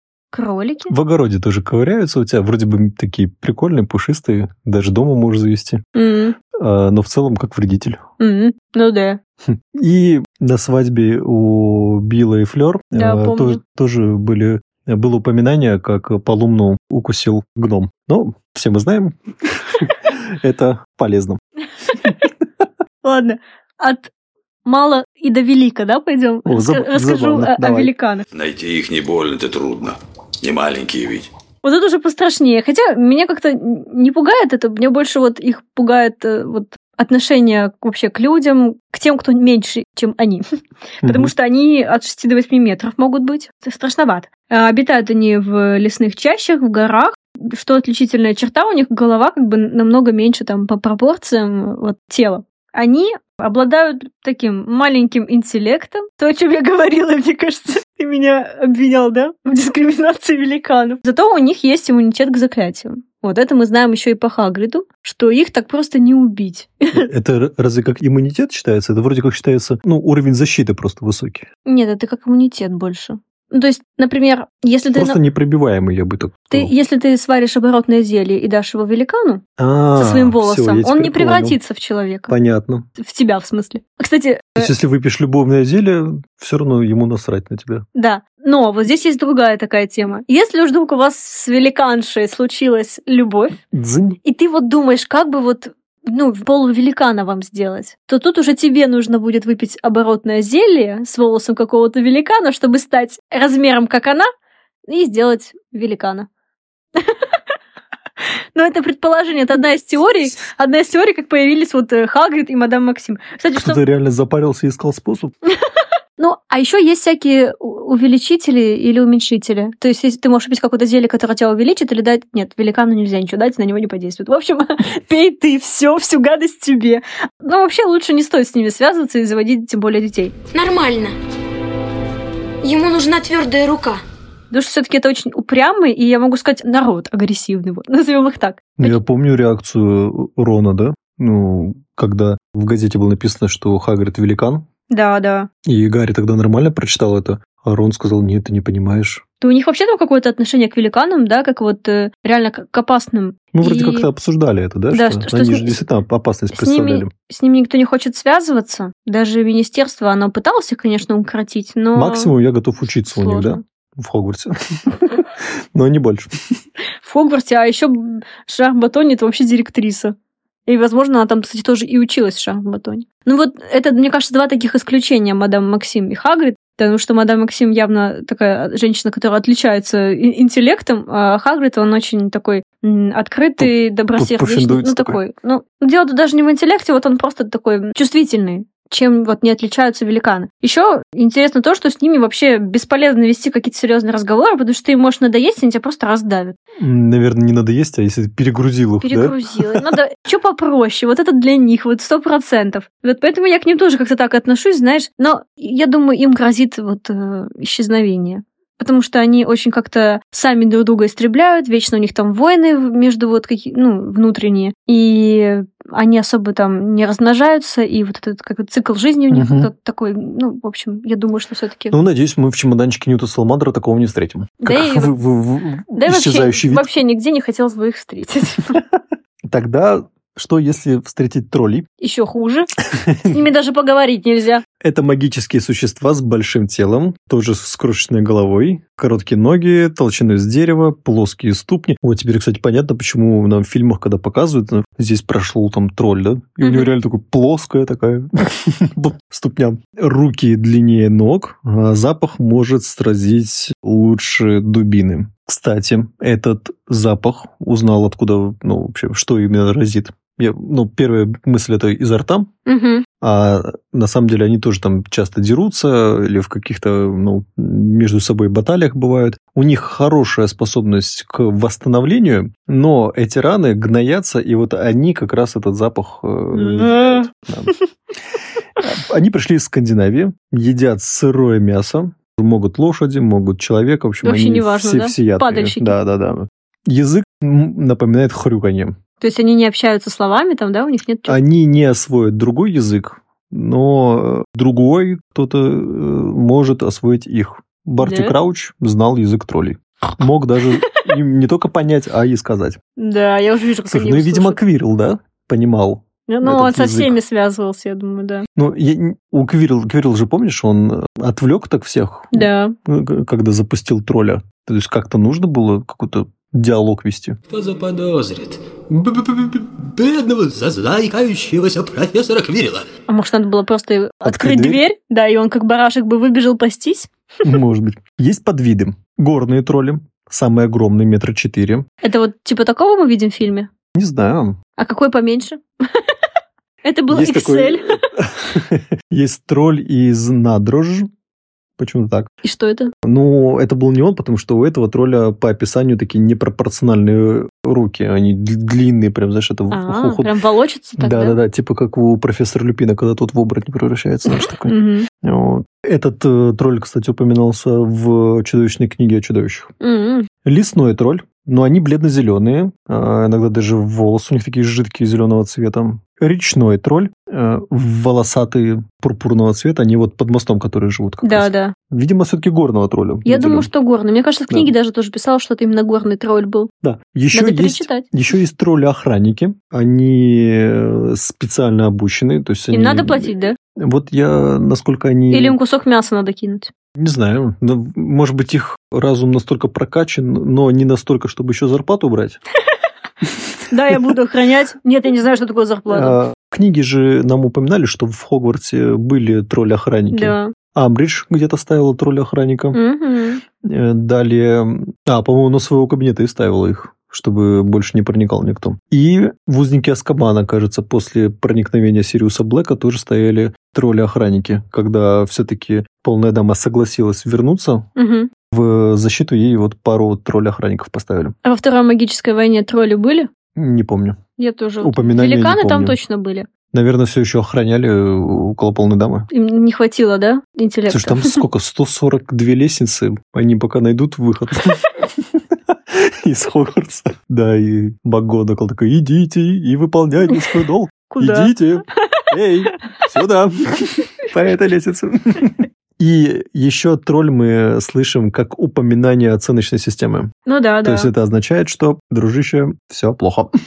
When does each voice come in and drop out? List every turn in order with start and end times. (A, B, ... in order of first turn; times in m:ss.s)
0:00.3-0:00.9 A
0:00.9-0:05.8 B
0:05.9-0:06.4 A
0:06.6-0:08.0 B
0:08.2-0:09.2 A
0:09.5-0:21.4 B
0:12.9-0:13.6 A
0:23.0-0:24.1 A
0:24.6-0:28.2 A
0:26.4-0:27.9 B
0:28.3-0:31.3 C
0:31.6-0:40.4 A
0:41.0-1:07.0 A
0:41.0-0:41.3 B
1:06.9-1:11.5 B
1:11.6-1:15.2 A
1:14.9-1:16.7 B
1:16.5-1:19.4 A
1:19.6-1:21.6 B
1:20.0-1:22.3 A
1:22.3-1:22.9 B
1:23.0-1:24.7 A
1:24.6-1:27.8 B
1:27.9-1:33.6 A
1:33.7-1:34.2 B
1:34.2-1:44.3 A
1:44.9-1:46.3 A
1:47.0-1:47.4 A
1:48.5-1:53.8 A
1:53.6-1:55.3 B
1:55.5-2:10.4 A
2:10.5-2:11.1 D
2:12.6-2:14.0 D
2:14.5-2:19.0 A
2:18.8-2:24.6 B
2:24.9-2:25.5 A
2:25.6-2:29.2 B
2:29.4-2:34.1 A
2:33.5-2:37.1 B
2:34.9-2:35.8 A
2:36.5-2:42.3 A
2:41.9-2:46.3 B
2:43.0-2:43.6 A
2:47.0-2:50.1 A
2:50.7-3:16.6 A
3:03.6-3:05.2 B
3:16.8-3:19.8 B
3:19.0-3:42.0 A
3:39.3-3:39.7 B
3:41.9-3:46.9 B
3:44.6-3:45.2 A
3:45.9-3:48.8 A
3:49.5-3:51.8 B
3:52.0-3:52.7 A
3:53.0-3:53.3 B
3:53.2-3:54.6 A
3:54.8-4:22.5 B
4:06.6-4:06.9 A
4:22.6-4:23.0 A
4:23.2-4:37.7 B
4:36.5-4:37.7 A
4:38.8-4:49.0 B
4:44.2-4:46.0 A
4:49.2-4:51.4 A
4:51.3-5:02.8 B
4:58.0-4:58.3 A
5:03.0-5:04.6 A
5:03.9-5:07.2 B
5:06.3-5:08.4 A
5:08.6-5:17.4 B
5:12.3-5:12.7 A
5:17.5-5:22.8 E
5:23.1-5:27.1 A
5:24.2-5:24.8 B
5:27.4-5:31.8 B
5:32.0-5:33.7 A
5:33.9-5:34.6 B
5:34.8-5:36.1 A
5:36.8-5:38.0 A
5:37.1-5:41.1 B
5:41.8-5:42.3 B
5:42.4-5:42.9 A
5:43.0-5:50.3 B
5:49.7-5:51.4 A
5:51.0-5:59.7 B
5:54.4-5:55.1 A
5:59.8-6:00.3 A
6:00.4-6:13.7 B
6:11.2-6:11.7 A
6:13.2-6:16.7 A
6:16.8-6:25.6 B
6:17.3-6:18.1 A
6:22.7-6:23.6 A
6:25.3-6:26.7 A
6:27.0-6:32.4 B
6:33.7-6:36.2 A
6:35.9-6:42.8 B
6:40.1-6:40.5 A
6:42.7-6:43.4 A
6:43.6-6:57.9 B
6:58.0-6:58.3 A
6:58.5-7:01.3 B
7:01.4-7:03.3 A
7:03.6-7:04.2 B
7:04.4-7:06.5 A
7:04.8-7:06.0 B
7:06.7-7:09.3 B
7:09.3-7:11.4 A
7:10.9-7:14.9 B
7:15.9-7:30.3 B
7:21.1-7:21.5 A
7:30.4-7:31.1 A
7:30.8-7:33.5 B